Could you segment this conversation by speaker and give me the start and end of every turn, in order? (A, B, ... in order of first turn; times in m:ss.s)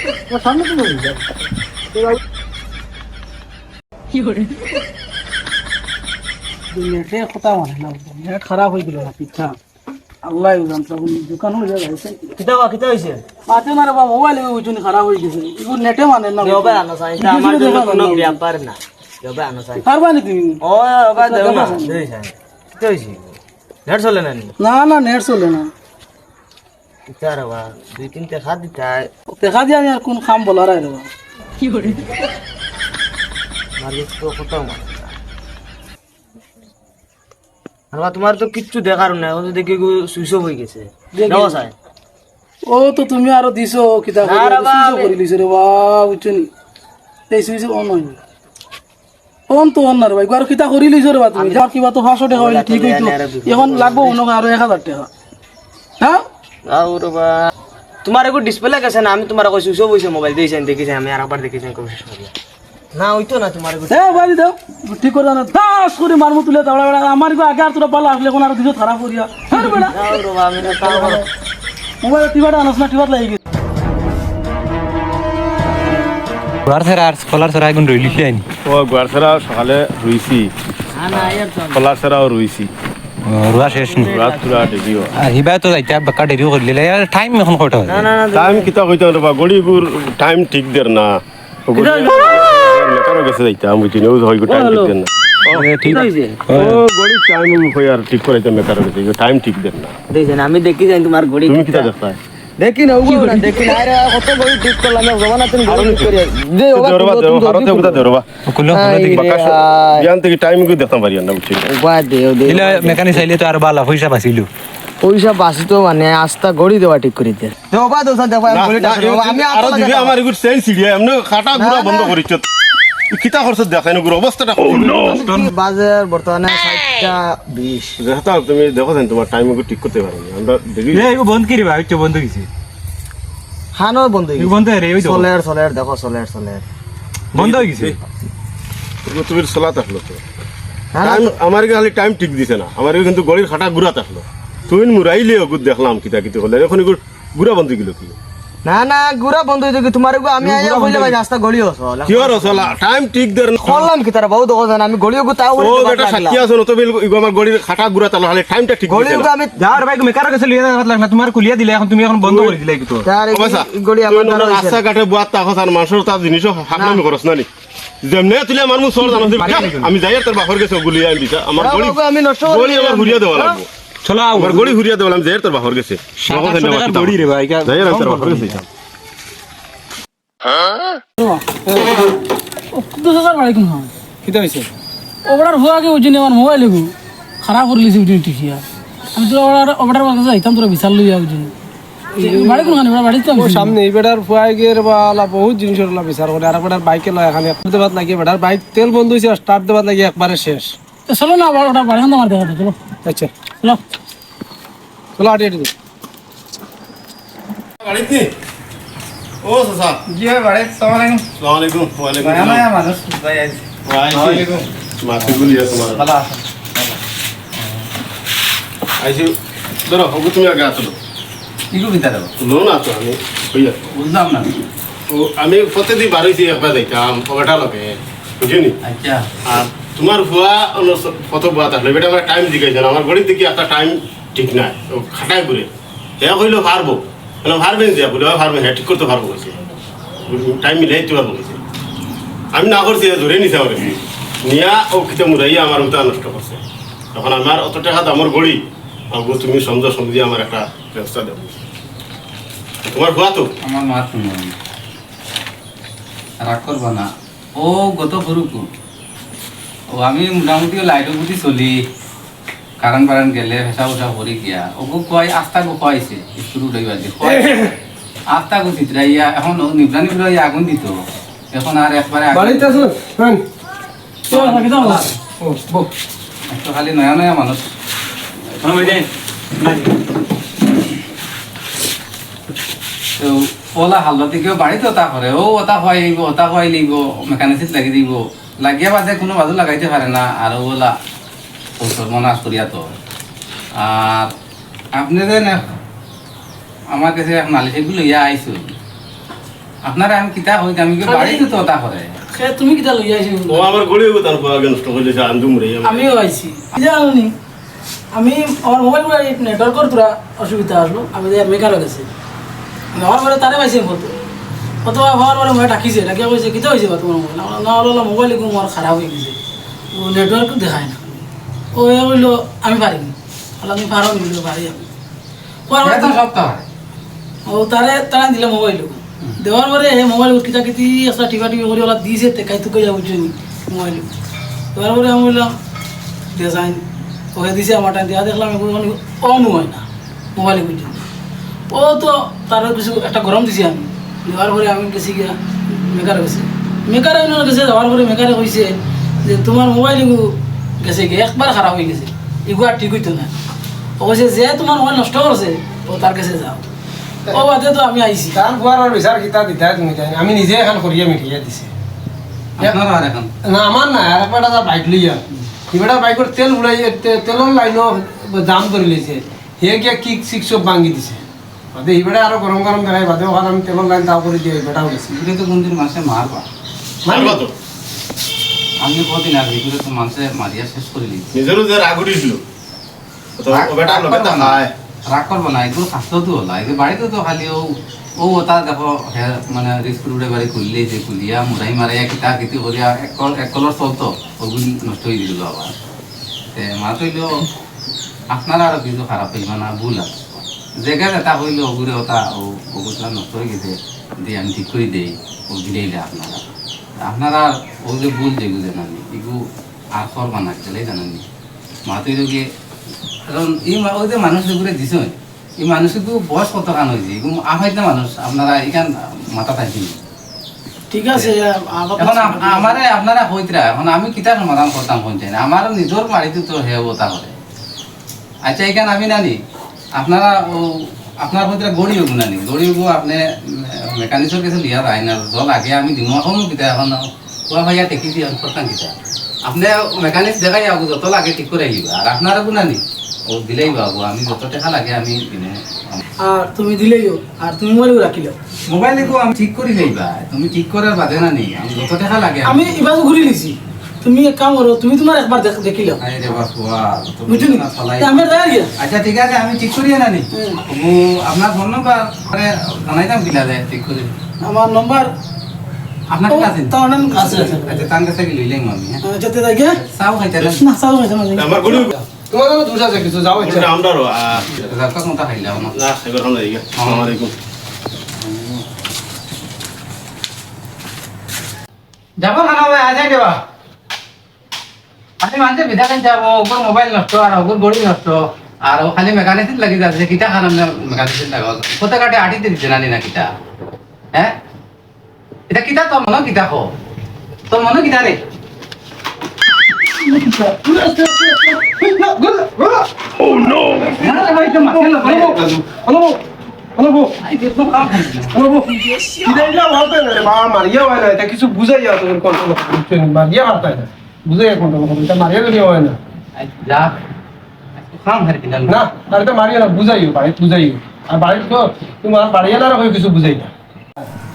0:00.3-0:01.1 A
0:06.7-0:09.6 B
0:10.2-0:12.3 B
0:12.4-0:13.2 C
0:13.5-0:18.4 B
0:16.4-0:19.8 C
0:19.8-0:20.6 B
0:20.6-0:23.4 C
0:21.2-0:22.0 B
0:23.9-0:24.5 C
0:24.6-0:25.7 B
0:27.1-0:29.1 C
0:29.4-0:31.1 B
0:31.7-0:32.0 C
0:33.8-0:35.2 C
0:37.9-0:41.7 C
0:41.1-0:41.6 B
0:42.7-0:46.5 B
0:44.2-0:45.1 C
0:47.3-0:48.2 B
0:49.5-0:55.1 B
0:51.4-0:51.6 C
0:52.3-0:54.2 C
0:56.7-0:57.5 C
0:58.0-1:02.3 C
1:02.9-1:04.3 C
1:03.9-1:10.1 B
1:09.8-1:11.3 C
1:10.7-1:11.2 B
1:12.0-1:13.4 B
1:16.7-1:18.4 D
1:18.6-1:20.5 E
1:20.9-1:21.9 C
1:21.1-1:22.7 E
1:23.3-1:24.2 D
1:23.5-1:25.2 C
1:24.0-1:25.1 E
1:25.2-1:28.1 D
1:27.8-1:28.7 C
1:28.3-1:31.1 E
1:31.7-1:35.7 E
1:31.7-1:32.4 C
1:34.5-1:35.0 C
1:35.5-1:36.4 C
1:35.6-1:36.0 D
1:36.5-1:36.8 A
1:36.5-1:39.9 E
1:40.1-1:48.1 C
1:41.5-1:42.0 E
1:45.6-1:46.2 E
1:46.7-1:48.3 E
1:48.5-1:49.1 D
1:48.7-1:50.1 C
1:49.0-1:51.7 E
1:51.7-1:53.3 C
1:52.5-1:54.5 D
1:55.0-2:00.2 C
1:58.5-2:02.4 E
2:01.5-2:02.2 C
2:03.1-2:05.0 E
2:04.7-2:08.0 C
2:05.1-2:05.5 D
2:08.0-2:11.1 E
2:10.9-2:12.5 D
2:13.8-2:16.6 C
2:14.4-2:15.3 D
2:17.3-2:18.0 D
2:17.4-2:18.0 E
2:19.1-2:20.2 E
2:20.9-2:21.4 C
2:21.0-2:28.2 E
2:28.6-2:32.8 C
2:32.1-2:33.9 E
2:33.6-2:36.5 C
2:35.6-2:39.3 E
2:38.9-2:39.7 C
2:39.6-2:43.1 D
2:42.2-2:42.5 E
2:43.0-2:44.8 C
2:43.3-2:47.5 E
2:46.7-2:47.0 C
2:48.0-2:53.7 E
2:49.2-2:49.9 D
2:51.6-2:53.6 C
2:54.0-2:54.8 D
2:54.4-2:58.6 E
2:56.2-2:58.6 D
3:01.2-3:01.5 B
3:01.7-3:02.0 A
3:02.7-3:03.9 B
3:04.2-3:04.7 A
3:05.3-3:08.6 B
3:09.2-3:11.5 B
3:12.2-3:12.8 A
3:12.2-3:13.8 B
3:13.3-3:20.8 A
3:21.1-3:22.8 B
3:23.0-3:23.3 A
3:25.2-3:25.7 A
3:27.8-3:28.3 E
3:29.4-3:30.0 E
3:30.1-3:31.2 F
3:31.4-3:32.6 E
3:32.2-3:34.6 F
3:33.9-3:36.0 E
3:35.2-3:36.4 F
3:39.0-3:39.3 E
3:39.9-3:41.0 E
3:41.7-3:42.3 F
3:42.4-3:43.8 E
3:43.9-3:44.5 F
3:45.1-3:48.8 E
3:48.8-3:49.3 F
3:49.5-3:59.6 E
4:00.3-4:01.6 E
4:02.5-4:06.6 E
4:07.2-4:08.6 E
4:09.1-4:11.5 E
4:12.8-4:13.5 E
4:13.6-4:14.6 F
4:16.4-4:18.7 F
4:19.9-4:21.8 F
4:22.8-4:27.7 F
4:27.2-4:27.7 A
4:28.3-4:32.9 F
4:32.3-4:33.4 A
4:34.3-4:35.1 B
4:34.3-4:35.2 F
4:35.4-4:35.9 A
4:36.5-4:37.6 F
4:38.6-4:39.1 D
4:39.6-4:39.9 D
4:43.2-4:51.0 F
4:51.8-4:53.0 F
4:53.8-4:54.3 F
4:54.9-4:55.7 F
4:56.9-4:58.7 F
4:59.8-5:02.2 F
5:01.0-5:01.5 B
5:02.3-5:03.8 B
5:03.5-5:06.1 E
5:05.8-5:07.3 B
5:08.1-5:12.1 B
5:12.9-5:14.2 B
5:14.8-5:19.4 B
5:19.9-5:24.9 B
5:25.7-5:26.2 B
5:25.8-5:26.7 F
5:27.5-5:34.1 B
5:34.7-5:35.5 B
5:36.3-5:36.8 B
5:37.4-5:41.0 B
5:41.7-5:53.3 B
5:54.0-5:56.6 B
5:57.3-5:58.4 B
5:58.3-6:01.7 A
6:02.6-6:03.3 F
6:03.4-6:11.2 A
6:11.7-6:15.1 A
6:15.1-6:16.5 F
6:17.1-6:17.4 A
6:17.1-6:17.5 E
6:18.8-6:21.3 F
6:21.3-6:22.4 E
6:23.4-6:24.7 E
6:23.5-6:35.7 F
6:36.5-6:37.5 F
6:38.3-6:46.4 F
6:47.0-6:49.4 F
6:50.0-6:51.2 F
6:51.9-6:52.5 F
6:53.3-7:00.0 F
7:00.9-7:02.8 B
7:02.0-7:07.4 F
7:08.4-7:09.4 F
7:10.0-7:18.9 F
7:19.5-7:26.0 F
7:26.2-7:28.4 B
7:28.7-7:32.8 F
7:32.4-7:36.0 B
7:36.0-7:44.1 F
7:37.3-7:38.7 B
7:40.3-7:40.6 B
7:44.4-7:45.1 B
7:46.1-7:49.0 F
7:46.3-7:47.9 B
7:47.2-7:47.5 A
7:49.0-7:49.8 B
7:49.7-7:50.6 F
7:50.6-7:51.9 B
7:51.4-7:52.0 E
7:52.3-7:53.7 A
7:53.3-7:54.5 E
7:54.5-7:55.8 F
7:55.7-7:57.4 E
7:56.7-7:57.1 F
7:58.2-7:58.6 F
8:02.2-8:03.4 F
8:05.2-8:13.3 F
8:15.5-8:16.7 F
8:17.5-8:18.2 F
8:20.0-8:26.2 A
8:23.7-8:25.4 F
8:26.8-8:27.2 A
8:27.2-8:28.4 F
8:28.3-8:36.0 A
8:28.9-8:29.4 B
8:36.4-8:36.9 F
8:37.8-8:38.8 F
8:38.7-8:43.5 A